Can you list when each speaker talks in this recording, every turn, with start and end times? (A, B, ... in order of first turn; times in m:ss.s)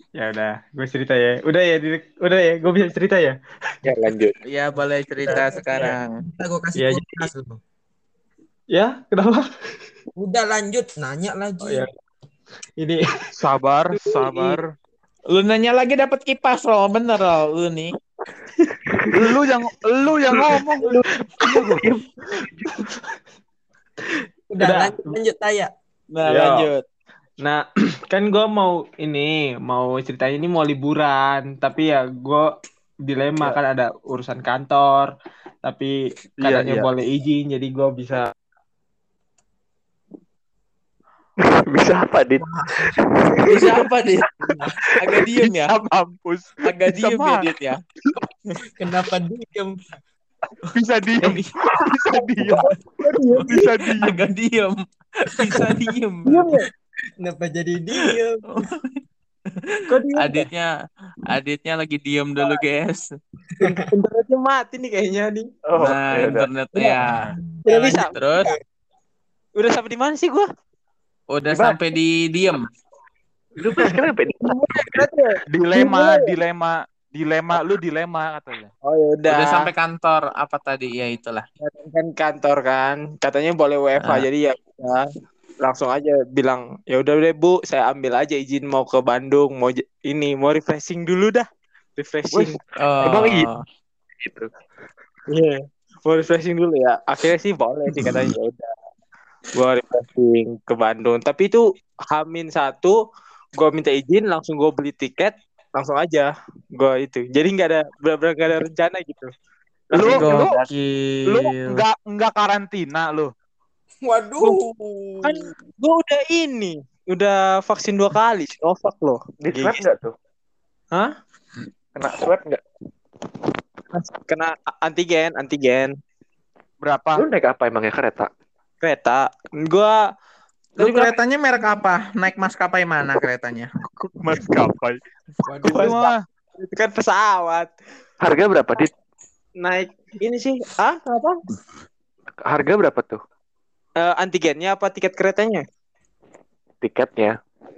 0:00.2-0:03.4 A
0:03.8-0:04.4 B
0:04.5-0:06.2 C
0:05.2-0:06.0 A
0:05.3-0:07.6 D
0:06.8-0:07.3 A
0:08.7-0:09.4 A
0:10.2-0:11.9 D
0:11.6-0:11.9 A
0:13.4-0:14.6 E
0:14.2-0:14.6 A
0:15.3-0:17.9 C
0:18.9-0:19.2 B
0:19.1-0:20.9 E
0:20.8-0:22.9 B
0:21.4-0:21.8 E
0:24.5-0:25.7 D
0:24.6-0:25.2 A
0:26.1-0:26.8 C
0:26.2-0:26.7 A
0:27.4-0:32.5 A
0:33.0-0:35.1 A
0:35.6-0:38.3 A
0:36.4-0:36.9 E
0:41.4-0:43.5 B
0:42.4-0:43.4 D
0:43.4-0:44.3 C
0:44.8-0:45.8 C
0:45.7-0:47.4 E
0:46.6-0:47.8 C
0:48.8-0:49.9 D
0:50.7-0:52.7 E
0:51.2-0:51.5 C
0:52.5-0:53.7 A
0:53.4-0:56.5 C
0:53.5-0:54.2 E
0:55.4-0:56.0 D
0:56.2-0:56.7 A
0:57.2-0:58.5 D
0:58.5-0:59.0 C
0:59.5-1:00.7 C
0:59.9-1:00.5 A
1:01.3-1:03.0 C
1:03.6-1:03.8 D
1:03.6-1:05.5 A
1:05.6-1:06.5 B
1:05.8-1:07.2 C
1:06.8-1:07.0 A
1:07.0-1:07.3 E
1:07.5-1:08.6 D
1:07.6-1:08.1 A
1:07.8-1:08.5 C
1:09.6-1:10.5 A
1:11.3-1:12.6 C
1:11.5-1:11.8 B
1:13.6-1:15.0 B
1:14.4-1:16.4 A
1:15.5-1:18.7 E
1:18.8-1:19.7 A
1:19.3-1:21.4 C
1:21.6-1:24.8 A
1:24.0-1:24.3 C
1:25.6-1:32.6 A
1:32.3-1:33.4 B
1:32.8-1:33.6 C
1:34.2-1:34.5 B
1:35.3-1:38.7 A
1:39.5-1:43.0 A
1:43.6-1:49.3 A
1:49.9-1:50.6 B
1:49.9-1:50.6 E
1:50.0-1:51.8 C
1:51.3-1:53.3 E
1:54.0-1:55.4 D
1:54.4-1:54.6 A
1:55.8-1:59.9 A
1:59.4-2:00.1 B
2:02.0-2:02.6 B
2:03.9-2:06.0 A
2:06.8-2:07.2 E
2:07.2-2:08.3 B
2:08.8-2:10.0 A
2:10.8-2:11.1 A
2:10.8-2:13.7 C
2:14.0-2:15.0 E
2:15.4-2:16.0 D
2:15.6-2:16.2 E
2:15.6-2:16.1 A
2:16.6-2:17.7 A
2:18.2-2:18.9 B
2:19.6-2:21.4 A
2:22.4-2:23.2 B
2:24.0-2:25.6 A
2:26.8-2:27.4 B